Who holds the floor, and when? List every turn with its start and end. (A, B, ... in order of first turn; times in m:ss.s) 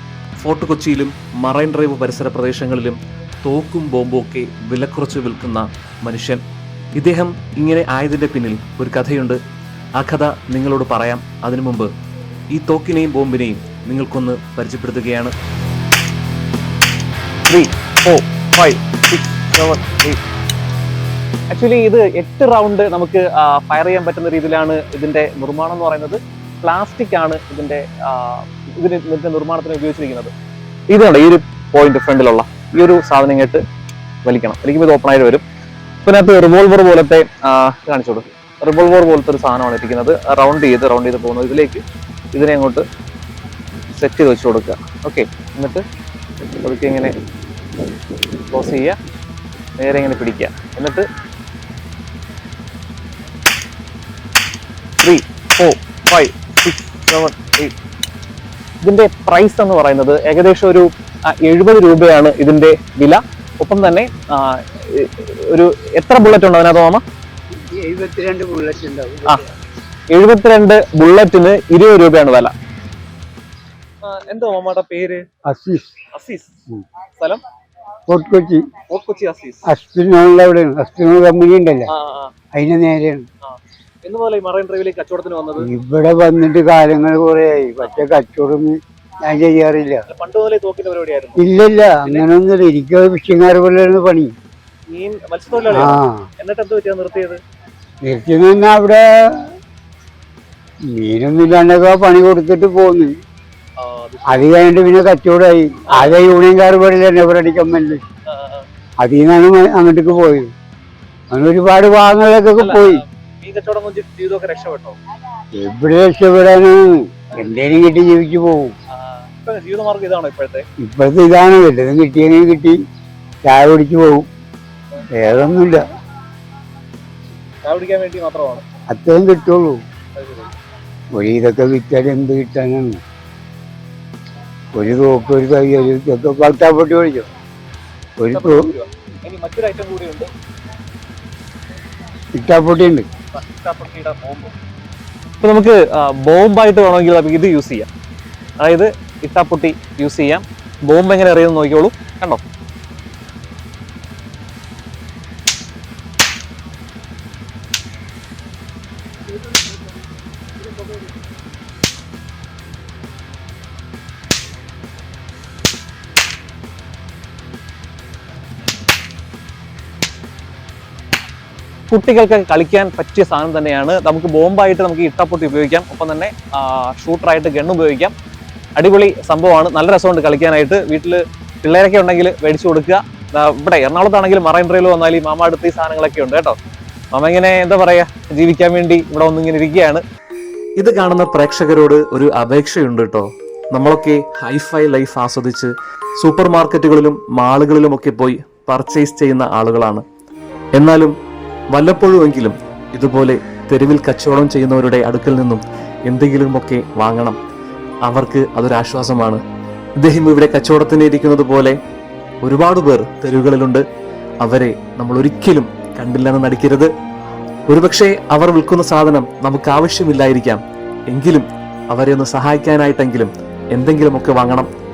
0:00.4-0:06.4 A
0:07.0-0:09.4 A
0:10.0-0:11.9 A
0:12.5-0:15.3 A
0:17.5-0:20.2 B
0:21.5-0:30.3 B
0:30.9-0:33.6 B
0:34.2-0:35.4 B
0:36.0-0:41.8 B
0:42.3-0:42.8 B
0:43.9-0:45.8 B
0:46.6-0:47.1 B
0:48.5-0:49.0 B
0:49.8-0:51.1 B
0:55.0-0:57.7 B
0:58.8-1:07.0 B
1:07.7-1:09.4 C
1:10.1-1:12.5 B
1:14.0-1:15.2 B
1:15.5-1:15.9 C
1:16.1-1:16.5 B
1:17.2-1:17.4 B
1:18.1-1:18.8 C
1:18.8-1:19.6 B
1:19.6-1:21.9 C
1:21.9-1:22.3 B
1:22.5-1:23.2 C
1:23.4-1:25.7 B
1:25.6-1:30.0 C
1:30.1-1:31.4 B
1:31.4-1:34.3 C
1:34.9-1:37.4 B
1:35.7-1:36.2 C
1:38.0-1:39.0 C
1:40.9-1:43.1 C
1:43.8-1:44.5 B
1:44.2-1:48.0 C
1:45.9-1:46.2 B
1:48.3-1:48.6 B
1:49.0-1:50.5 C
1:51.3-1:53.0 C
1:52.6-1:55.0 B
1:55.5-1:58.7 C
1:58.9-2:00.6 B
2:00.8-2:02.8 C
2:03.4-2:04.2 C
2:05.1-2:05.8 C
2:07.6-2:08.6 B
2:08.9-2:09.8 C
2:10.2-2:10.5 B
2:11.1-2:13.0 C
2:14.7-2:17.3 C
2:18.2-2:18.7 C
2:18.3-2:20.3 B
2:22.3-2:23.0 C
2:23.3-2:24.5 B
2:25.4-2:27.9 B
2:28.6-2:32.4 B
2:51.9-2:58.1 B
2:58.8-3:06.6 B
3:07.1-3:10.0 B
3:10.8-3:20.0 A
3:20.8-3:21.1 A
3:21.7-3:27.4 A
3:28.0-3:29.4 A
3:30.0-3:31.8 A
3:32.4-3:33.8 A
3:34.4-3:36.9 A
3:37.7-3:44.7 A